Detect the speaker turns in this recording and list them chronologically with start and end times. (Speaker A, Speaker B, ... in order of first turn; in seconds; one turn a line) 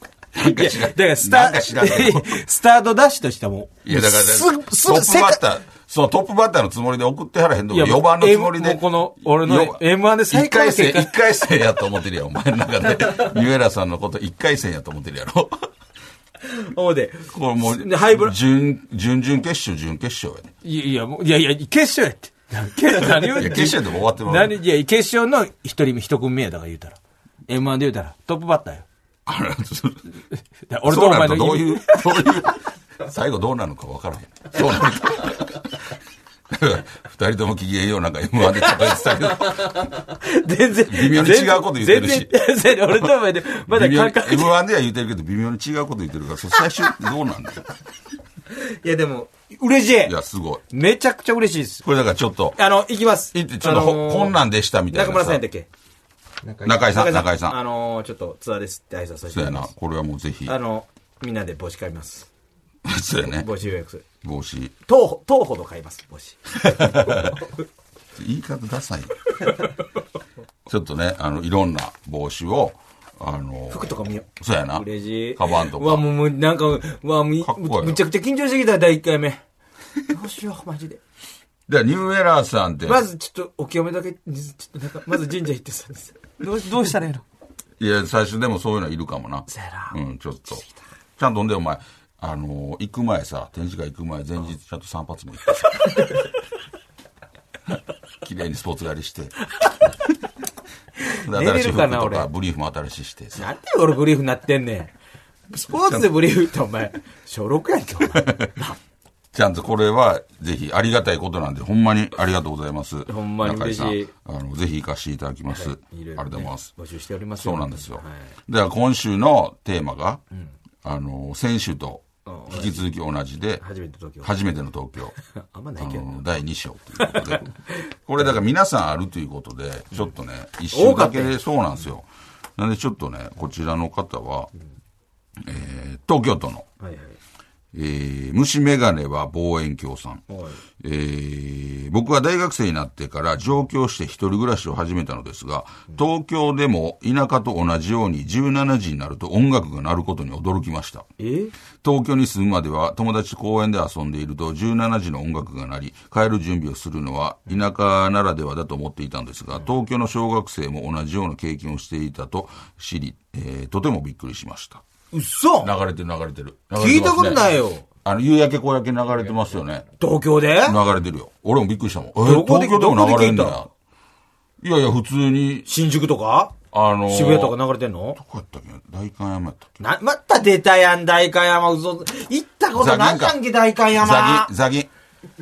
Speaker A: 0.3-2.4
Speaker B: 0.4-5.4
Speaker A: 3.8-15.6
Speaker B: 7.7-11.2
Speaker B: 16.5-18.4
Speaker A: 17.3-20.5
Speaker B: 20.6-28.9
Speaker A: 23.0-24.6
Speaker A: 29.3-30.0
Speaker B: 30.7-32.3
Speaker A: 30.9-35.9
Speaker A: 36.5-39.9
Speaker B: 39.6-44.6
Speaker A: 40.9-42.3
Speaker A: 43.7-47.7
Speaker B: 48.5-50.2
Speaker A: 50.0-50.6
Speaker B: 50.7-51.9
Speaker A: 51.8-52.6
Speaker B: 52.6-55.7
Speaker A: 53.3-55.4
Speaker A: 56.6-57.6
Speaker B: 56.6-59.7
Speaker A: 59.3-60.6
Speaker B: 60.5-62.3
Speaker A: 62.9-63.5
Speaker B: 63.2-64.0
Speaker A: 64.2-64.7
Speaker B: 64.9-67.2
Speaker A: 66.6-67.4
Speaker A: 68.2-69.2
Speaker A: 70.7-76.0
Speaker B: 73.7-79.4
Speaker A: 77.4-78.0
Speaker B: 80.1-81.0
Speaker A: 81.7-83.0
Speaker B: 82.8-87.2
Speaker A: 87.8-90.6
Speaker B: 89.5-90.0
Speaker A: 91.2-96.1
Speaker A: 98.2-99.3
Speaker B: 101.1-102.3
Speaker A: 101.2-103.4
Speaker B: 103.3-104.9
Speaker B: 105.5-108.8
Speaker A: 108.1-108.5
Speaker A: 109.3-116.7
Speaker B: 113.1-114.1
Speaker B: 115.5-118.3
Speaker A: 117.4-120.2
Speaker A: 120.8-123.7
Speaker B: 122.3-122.8
Speaker B: 123.6-124.3
Speaker A: 124.2-125.2
Speaker B: 125.4-126.2
Speaker A: 125.8-127.5
Speaker B: 127.0-127.5
Speaker A: 128.1-134.5
Speaker B: 130.7-131.4
Speaker A: 135.4-136.7
Speaker B: 136.8-137.2
Speaker A: 137.7-140.2
Speaker B: 140.3-140.6
Speaker A: 140.8-151.1
Speaker B: 151.2-151.5
Speaker A: 151.8-164.8
Speaker B: 165.1-165.7
Speaker A: 165.6-167.5
Speaker B: 166.8-167.9
Speaker A: 168.0-169.9
Speaker B: 170.0-170.8
Speaker A: 170.6-173.7
Speaker B: 172.2-173.7
Speaker A: 174.6-175.7
Speaker B: 175.7-176.6
Speaker A: 176.7-177.6
Speaker B: 177.1-178.2
Speaker A: 178.2-179.7
Speaker B: 179.8-184.5
Speaker A: 182.8-183.4
Speaker A: 183.9-184.9